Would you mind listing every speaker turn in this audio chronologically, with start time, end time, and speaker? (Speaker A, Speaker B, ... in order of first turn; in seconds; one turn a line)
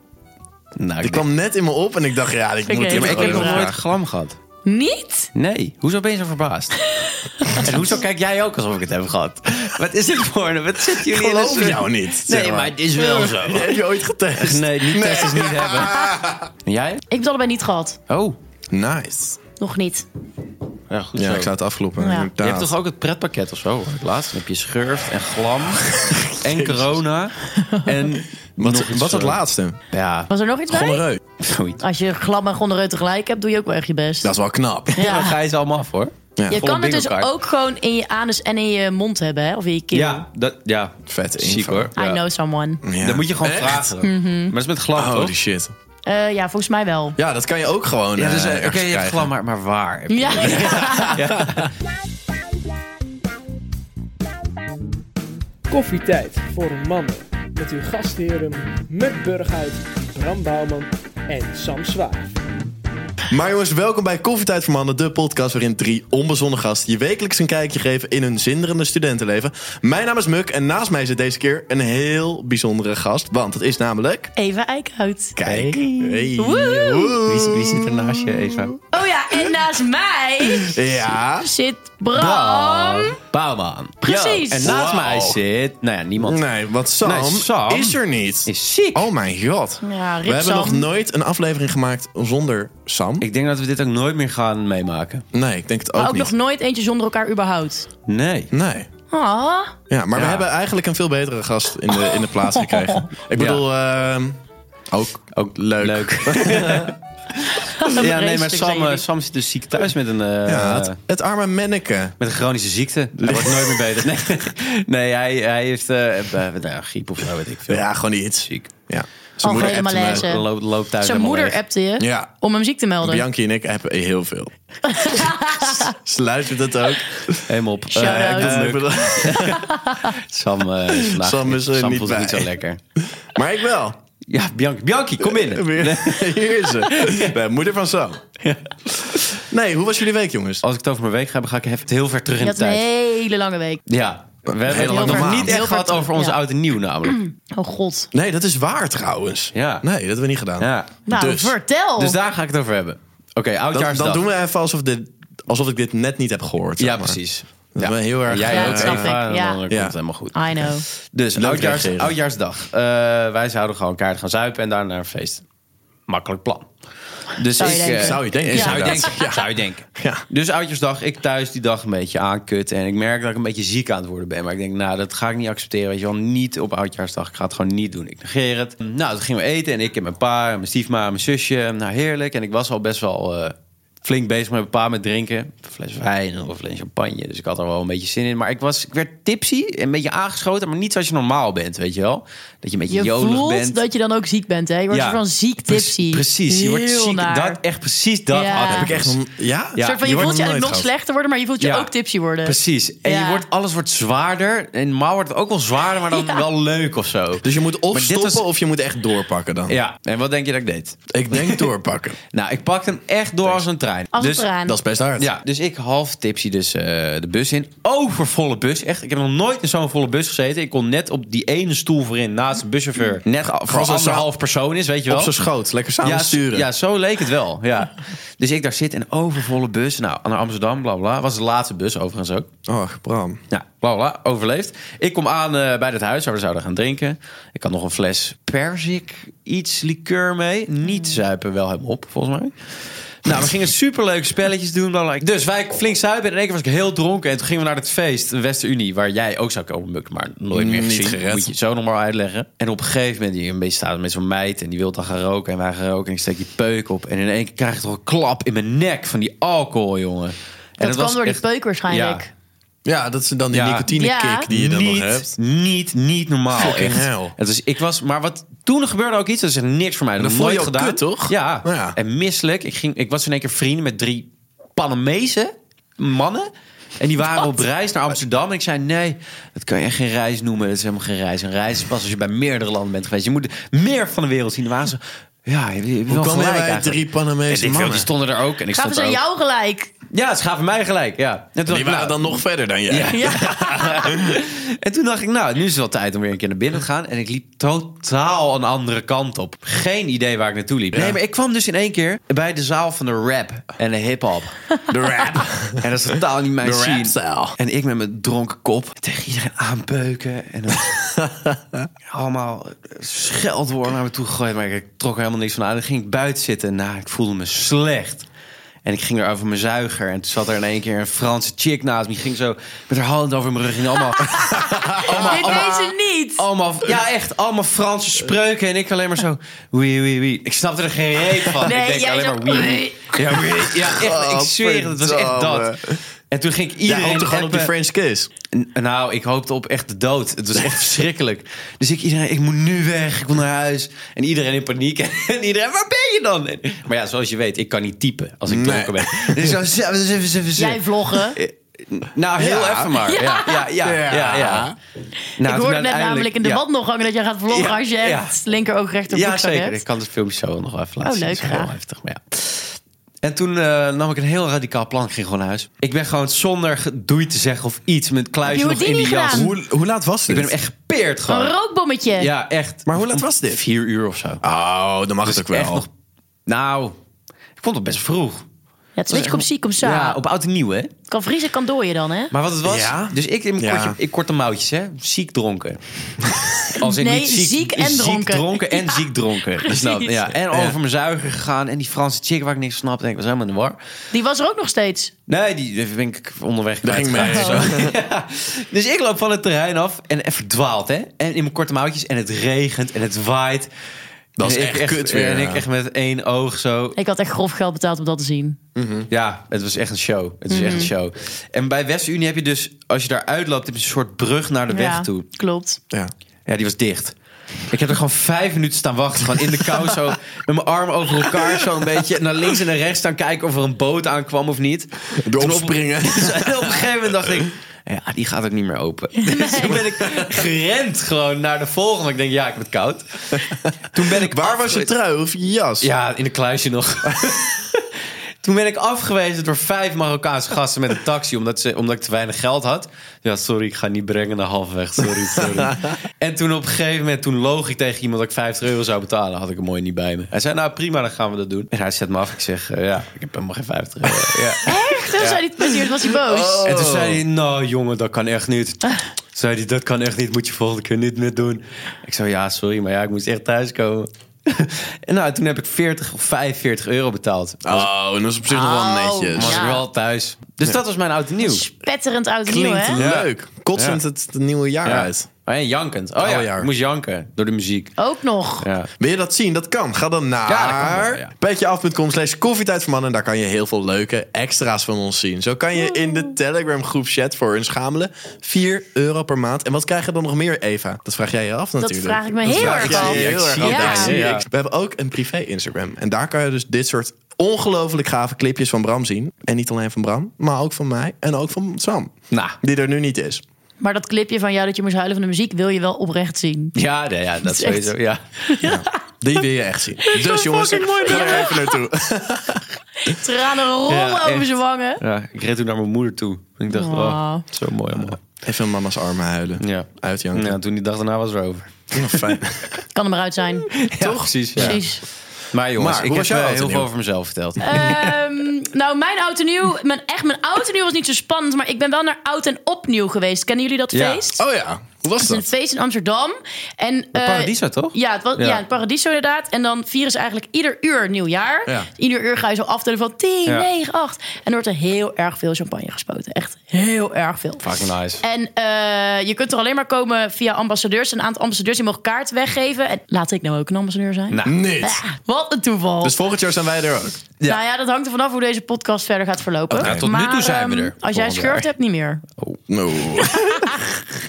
Speaker A: 0.8-1.3
Speaker B: 1.0-3.8
Speaker C: 2.6-3.7
Speaker A: 2.9-4.4
Speaker C: 4.6-5.3
Speaker A: 5.3-6.8
Speaker C: 6.9-7.6
Speaker A: 7.5-13.8
Speaker B: 7.6-7.8
Speaker B: 11.0-16.5
Speaker A: 14.4-16.1
Speaker A: 16.6-17.0
Speaker C: 17.1-18.0
Speaker A: 18.1-18.4
Speaker B: 18.7-19.4
Speaker C: 19.6-20.1
Speaker A: 20.9-21.5
Speaker B: 21.1-22.7
Speaker C: 22.0-22.3
Speaker A: 22.4-30.3
Speaker B: 25.9-26.9
Speaker C: 27.6-28.0
Speaker B: 28.6-29.8
Speaker C: 30.3-31.0
Speaker B: 30.7-31.2
Speaker A: 31.4-31.8
Speaker C: 31.8-34.3
Speaker B: 34.2-35.0
Speaker C: 35.0-35.4
Speaker A: 35.0-37.3
Speaker B: 36.4-36.6
Speaker C: 36.5-40.2
Speaker A: 39.9-42.2
Speaker B: 41.1-41.9
Speaker C: 42.0-42.8
Speaker B: 42.8-43.9
Speaker A: 43.0-45.4
Speaker C: 44.0-44.5
Speaker B: 44.9-45.7
Speaker C: 46.0-47.2
Speaker B: 47.2-49.3
Speaker A: 48.1-51.7
Speaker C: 50.1-51.2
Speaker B: 50.6-51.6
Speaker D: 55.7-62.3
Speaker B: 63.3-74.3
Speaker C: 74.3-77.2
Speaker B: 75.4-78.7
Speaker A: 75.4-76.1
Speaker A: 77.2-78.7
Speaker C: 78.9-80.8
Speaker B: 80.6-81.5
Speaker C: 81.4-83.2
Speaker A: 82.1-86.4
Speaker C: 84.0-84.7
Speaker B: 84.6-85.4
Speaker B: 86.2-93.3
Speaker A: 87.0-89.1
Speaker C: 89.8-90.9
Speaker A: 93.2-95.2
Speaker B: 95.3-96.3
Speaker C: 96.0-97.9
Speaker A: 98.1-98.5
Speaker B: 98.5-98.9
Speaker C: 99.1-99.7
Speaker B: 99.9-104.4
Speaker A: 100.1-100.4
Speaker C: 102.2-103.0
Speaker A: 103.3-103.6
Speaker B: 104.9-106.9
Speaker A: 105.3-107.0
Speaker C: 107.5-109.0
Speaker A: 107.8-111.0
Speaker B: 110.5-112.2
Speaker A: 112.2-117.9
Speaker B: 113.2-114.1
Speaker B: 117.7-120.3
Speaker C: 119.4-120.5
Speaker A: 119.4-121.6
Speaker C: 121.0-123.2
Speaker B: 122.0-122.3
Speaker B: 123.0-129.7
Speaker C: 124.9-125.9
Speaker A: 127.5-132.8
Speaker C: 127.9-128.7
Speaker C: 129.6-130.1
Speaker B: 130.9-134.0
Speaker A: 134.3-137.3
Speaker B: 135.2-138.2
Speaker A: 138.4-139.2
Speaker B: 139.0-140.6
Speaker A: 140.6-142.9
Speaker C: 142.4-143.8
Speaker A: 143.9-147.2
Speaker B: 144.6-145.6
Speaker C: 144.7-146.4
Speaker C: 147.0-148.1
Speaker B: 148.1-151.5
Speaker A: 149.5-149.8
Speaker A: 150.6-150.9
Speaker C: 151.1-152.2
Speaker A: 152.0-154.2
Speaker B: 153.7-157.2
Speaker A: 156.8-165.4
Speaker B: 157.7-159.9
Speaker C: 158.4-159.6
Speaker C: 160.3-160.8
Speaker B: 161.3-162.2
Speaker A: 166.1-166.7
Speaker A: 167.4-193.8
Speaker C: 167.5-169.2
Speaker B: 167.6-170.2
Speaker C: 192.9-197.6
Speaker A: 194.9-199.2
Speaker C: 198.3-199.0
Speaker B: 198.7-200.9
Speaker A: 199.7-200.1
Speaker C: 199.8-203.4
Speaker A: 201.6-201.9
Speaker A: 202.4-208.4
Speaker C: 206.1-206.4
Speaker B: 207.4-209.8
Speaker A: 209.7-211.7
Speaker B: 211.1-212.2
Speaker A: 212.3-214.5
Speaker C: 214.1-214.8
Speaker B: 214.7-215.3
Speaker A: 215.2-225.5
Speaker B: 223.6-224.3
Speaker B: 225.1-226.7
Speaker A: 226.0-232.5
Speaker B: 232.7-233.4
Speaker A: 233.5-262.2
Speaker B: 250.5-251.5
Speaker C: 260.8-262.3
Speaker B: 262.8-265.3
Speaker A: 263.5-263.9
Speaker C: 263.9-264.5
Speaker A: 264.5-289.2
Speaker B: 266.5-267.3
Speaker B: 270.2-271.9
Speaker B: 286.1-288.1
Speaker C: 288.7-289.9
Speaker A: 290.1-304.5
Speaker B: 291.7-294.4
Speaker C: 293.1-294.1
Speaker B: 304.9-307.6
Speaker A: 305.8-311.0
Speaker B: 311.2-311.8
Speaker A: 312.0-318.2
Speaker A: 318.8-337.7
Speaker B: 324.2-325.8
Speaker C: 324.6-326.4
Speaker C: 331.6-333.1
Speaker B: 333.3-336.0
Speaker B: 336.9-338.3
Speaker A: 338.5-354.7
Speaker B: 348.5-349.6
Speaker C: 350.6-351.4
Speaker B: 352.4-353.0
Speaker C: 353.0-353.7
Speaker B: 353.8-354.8
Speaker C: 355.4-359.8
Speaker A: 355.4-356.6
Speaker A: 357.5-358.3
Speaker A: 359.1-369.5
Speaker C: 361.0-361.7
Speaker C: 368.4-369.5
Speaker B: 369.3-370.5
Speaker A: 370.3-371.6
Speaker C: 371.3-372.3
Speaker A: 372.2-374.4
Speaker B: 372.9-373.6
Speaker B: 374.4-375.9
Speaker A: 375.2-375.9
Speaker A: 376.4-377.0
Speaker A: 377.6-378.4
Speaker C: 378.9-380.2
Speaker A: 379.1-380.9
Speaker C: 381.1-382.3
Speaker A: 382.3-393.8
Speaker B: 382.6-384.0
Speaker C: 386.8-390.2
Speaker B: 390.5-390.8
Speaker C: 394.1-395.1
Speaker A: 395.3-403.7
Speaker B: 396.8-397.9
Speaker C: 397.2-397.6
Speaker B: 404.4-405.6
Speaker A: 404.4-407.0
Speaker C: 406.9-408.6
Speaker B: 408.8-409.1
Speaker A: 409.1-415.2
Speaker C: 410.5-410.9
Speaker C: 414.7-415.8
Speaker A: 416.4-417.1
Speaker A: 417.7-434.9
Speaker B: 425.1-427.2
Speaker C: 429.1-429.8
Speaker B: 430.0-430.3
Speaker B: 433.4-435.9
Speaker A: 435.8-455.7
Speaker B: 445.4-445.9
Speaker C: 454.6-456.7
Speaker B: 456.1-457.2
Speaker A: 456.4-467.9
Speaker B: 467.6-469.8
Speaker C: 468.5-469.8
Speaker A: 469.4-471.6
Speaker C: 471.4-473.0
Speaker B: 472.4-475.3
Speaker A: 472.9-474.0
Speaker A: 474.8-477.9
Speaker B: 476.2-476.7
Speaker C: 478.0-478.7
Speaker A: 478.6-478.9
Speaker B: 479.0-503.4
Speaker A: 480.5-481.3
Speaker C: 491.8-494.2
Speaker A: 492.4-494.4
Speaker A: 502.3-502.6
Speaker C: 503.8-506.8
Speaker A: 506.7-508.2
Speaker C: 507.4-509.4
Speaker B: 508.6-513.1
Speaker C: 510.0-511.8
Speaker C: 513.0-515.0
Speaker A: 513.9-518.2
Speaker C: 516.7-517.4
Speaker B: 518.3-520.5
Speaker A: 519.6-522.4
Speaker B: 521.9-522.8
Speaker C: 522.9-523.7
Speaker A: 523.7-524.8
Speaker B: 524.0-524.8
Speaker C: 524.6-525.0
Speaker A: 525.5-528.2
Speaker B: 525.8-526.9
Speaker C: 527.6-534.4
Speaker A: 533.9-534.2
Speaker B: 534.4-535.5
Speaker C: 535.2-547.7
Speaker A: 537.1-538.6
Speaker A: 547.6-548.2
Speaker C: 548.2-556.1
Speaker A: 554.3-554.6
Speaker B: 554.4-555.0
Speaker B: 556.0-557.2
Speaker C: 557.4-562.2
Speaker B: 559.7-560.0
Speaker A: 559.8-561.7
Speaker B: 562.7-563.8
Speaker C: 563.3-563.9